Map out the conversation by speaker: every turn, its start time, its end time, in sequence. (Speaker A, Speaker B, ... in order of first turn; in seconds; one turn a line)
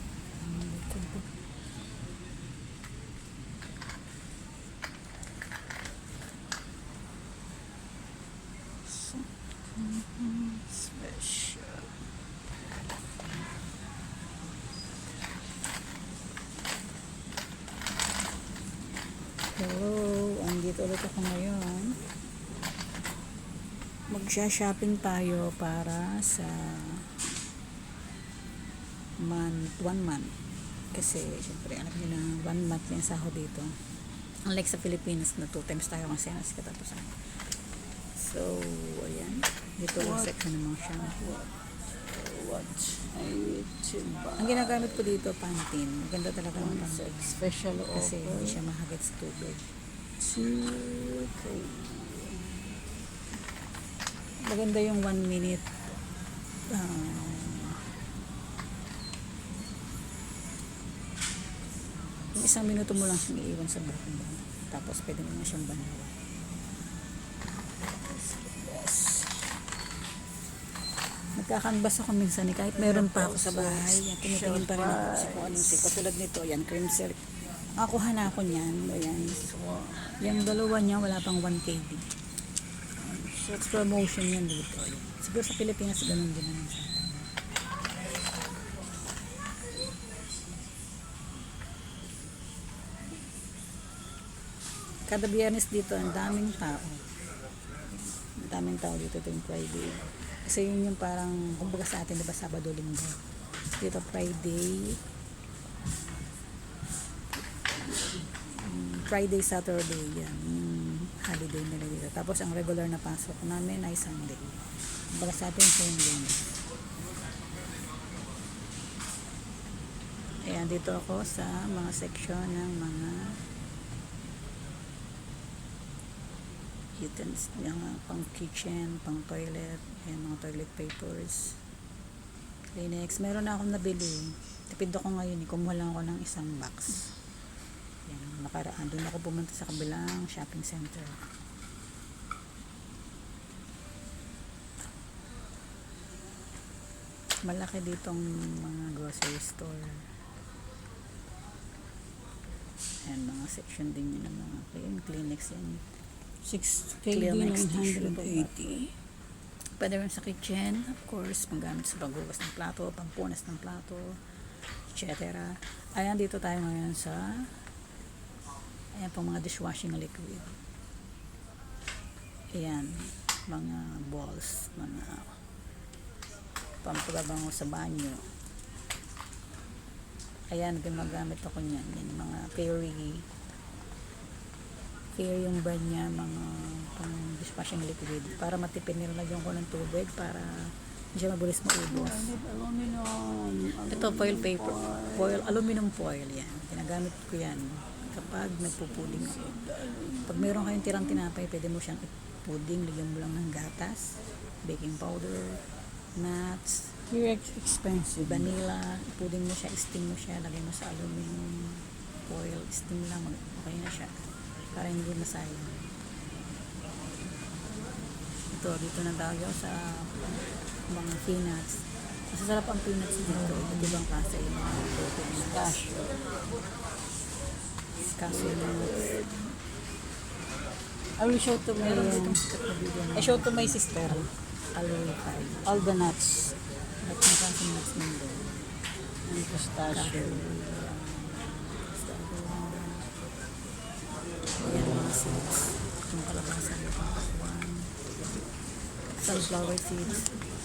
Speaker A: 0.4-1.3
Speaker B: 8.9-11.9
Speaker A: 19.6-22.0
Speaker A: 24.1-27.1
Speaker A: 29.2-30.3
Speaker A: 30.9-33.8
Speaker A: 34.5-37.3
Speaker A: 38.2-41.3
Speaker B: 40.0-40.3
Speaker B: 41.1-45.0
Speaker A: 44.4-49.7
Speaker B: 46.5-48.6
Speaker B: 50.2-52.8
Speaker A: 54.4-55.7
Speaker A: 56.7-57.8
Speaker A: 62.3-66.2
Speaker B: 68.1-69.4
Speaker A: 71.3-77.2
Speaker B: 72.8-75.9
Speaker A: 77.8-79.4
Speaker B: 79.4-80.1
Speaker A: 80.1-82.1
Speaker A: 83.2-87.3
Speaker B: 83.2-83.7
Speaker A: 95.1-97.0
Speaker A: 98.2-105.0
Speaker A: 108.5-116.5
Speaker A: 120.5-123.4
Speaker A: 127.0-131.6
Speaker A: 132.7-137.1
Speaker A: 138.1-141.2
Speaker A: 147.4-150.1
Speaker A: 153.1-155.8
Speaker B: 156.4-158.9
Speaker A: 157.1-158.5
Speaker A: 159.8-164.2
Speaker A: 164.8-167.6
Speaker A: 169.0-170.6
Speaker A: 172.6-175.4
Speaker A: 176.8-178.2
Speaker A: 180.5-183.2
Speaker A: 185.2-192.3
Speaker B: 191.9-195.6
Speaker A: 193.9-199.6
Speaker B: 198.9-201.0
Speaker A: 200.2-205.6
Speaker A: 206.2-207.0
Speaker B: 207.1-208.6
Speaker A: 208.2-215.9
Speaker A: 218.5-225.8
Speaker B: 223.2-224.0
Speaker B: 225.3-226.2
Speaker A: 228.1-229.1
Speaker B: 228.3-229.5
Speaker B: 231.2-232.4
Speaker A: 231.7-235.9
Speaker B: 233.1-234.3
Speaker B: 235.7-236.6
Speaker A: 237.0-238.6
Speaker B: 239.2-240.4
Speaker A: 239.9-243.1
Speaker A: 244.6-248.0
Speaker A: 249.2-250.3